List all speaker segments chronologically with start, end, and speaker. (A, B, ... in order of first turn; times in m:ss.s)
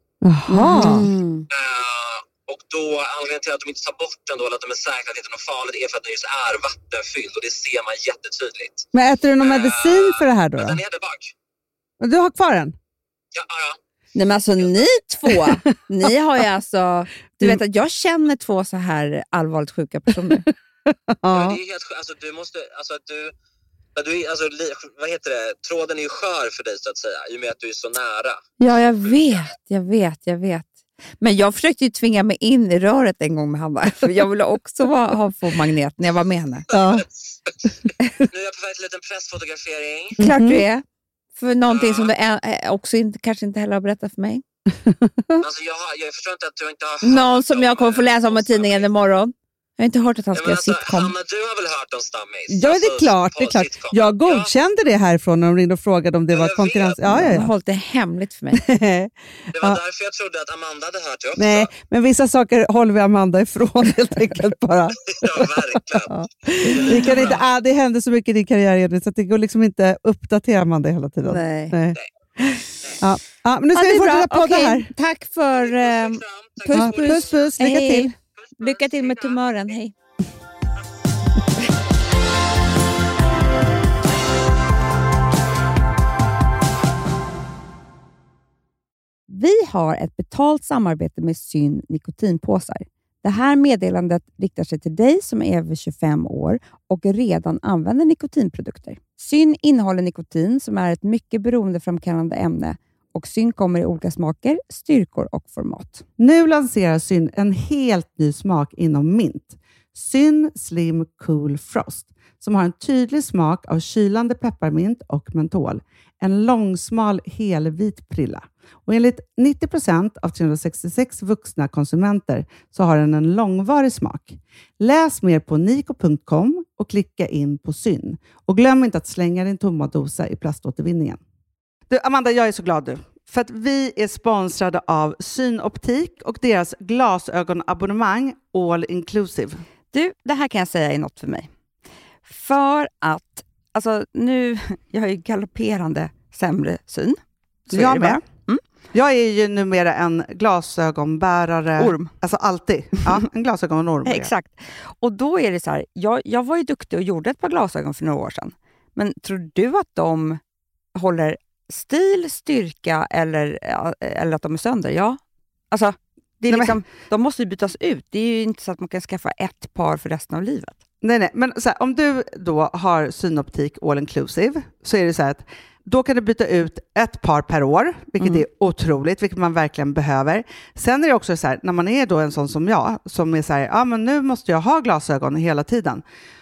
0:00.2-0:01.1 A
0:00.5-0:01.5 B
0:01.5-0:08.9 C
0:08.9-0:10.8 A
0:09.4-0:11.3 C
0:12.0-0:12.8 A
0:13.3-0:13.8 C
0:14.2-0:20.4 B
0:20.9-0:21.6 A
0:21.3-0:23.3 C
0:24.0-0:28.4 C
0:28.6-0:36.7 B
0:29.0-0:29.4 C
0:36.7-0:37.1 A
0:36.7-0:40.2 C
0:40.2-0:40.6 A
0:40.2-0:40.8 B
0:41.4-0:44.4 B
0:41.7-0:42.1 C
0:44.9-0:45.4 A
0:45.4-0:48.9 C
0:47.0-0:51.1 B
0:50.3-0:54.5 C
0:52.5-0:57.5 A
0:56.3-0:57.0 C
0:57.1-0:58.6 B
0:58.5-0:59.8 A
0:59.5-1:01.7 C
1:01.4-1:12.0 A
1:05.1-1:07.4 C
1:11.3-1:11.8 B
1:13.0-1:14.9 A
1:13.7-1:19.9 B
1:15.5-1:17.6 C
1:16.7-1:18.2 A
1:18.4-1:19.4 C
1:29.3-1:46.0 B
1:46.2-2:11.2 A
2:11.9-2:19.6 A
2:19.9-2:21.5 B
2:22.3-2:28.6 B
2:27.7-2:28.2 A
2:28.9-2:34.3 A
2:31.8-2:32.1 B
2:34.0-2:40.4 B
2:41.0-2:45.2 B
2:45.7-2:50.8 B
2:46.5-2:46.8 A
2:51.0-3:06.0 A